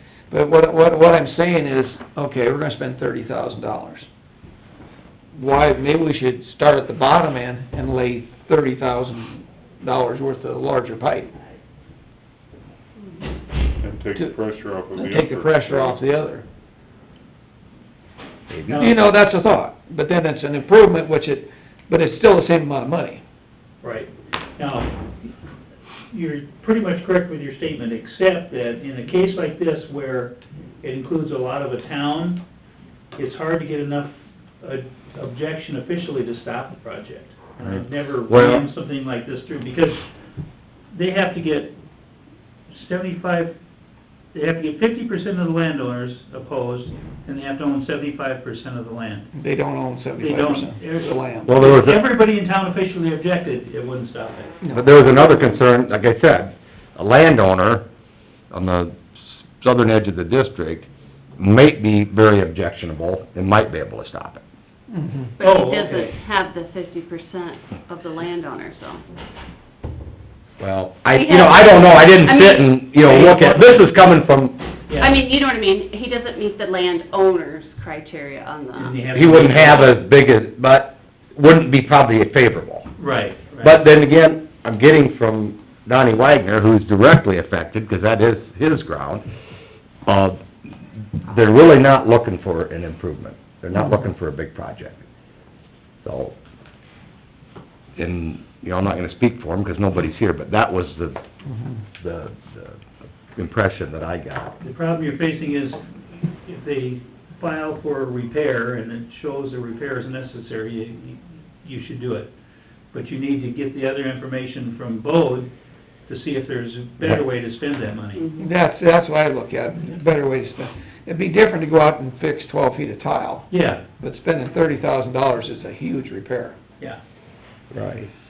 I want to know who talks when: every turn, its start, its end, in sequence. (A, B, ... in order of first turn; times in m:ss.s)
0:00.3-0:04.1 A
0:05.3-0:11.3 A
0:13.8-0:16.0 B
0:14.9-0:16.4 A
0:18.5-0:18.8 C
0:18.6-0:19.1 D
0:18.8-0:23.2 A
0:23.8-0:25.1 D
0:26.1-0:32.4 D
0:33.2-0:40.0 D
0:37.6-0:38.6 C
0:40.9-0:41.7 D
0:42.7-0:43.5 D
0:44.3-0:49.3 D
0:49.4-0:51.4 A
0:50.2-0:54.6 D
0:51.5-0:52.0 C
0:54.6-0:55.0 A
0:54.7-0:57.8 C
0:58.5-1:04.4 C
1:04.9-1:05.3 A
1:05.4-1:09.0 E
1:05.4-1:06.2 D
1:10.6-1:14.6 C
1:11.1-1:12.7 E
1:13.0-1:13.9 D
1:14.9-1:15.2 D
1:15.0-1:19.0 E
1:18.7-1:20.0 D
1:19.1-1:22.9 C
1:23.0-1:23.8 D
1:23.6-1:29.2 C
1:30.0-1:30.5 C
1:31.2-1:35.0 C
1:36.0-1:36.4 C
1:38.0-1:41.2 C
1:41.9-1:44.6 C
1:44.6-1:52.3 D
1:52.9-1:55.5 D
1:56.1-1:58.3 D
1:58.4-2:03.5 A
2:03.5-2:03.8 D
2:04.0-2:06.6 A
2:07.7-2:08.1 C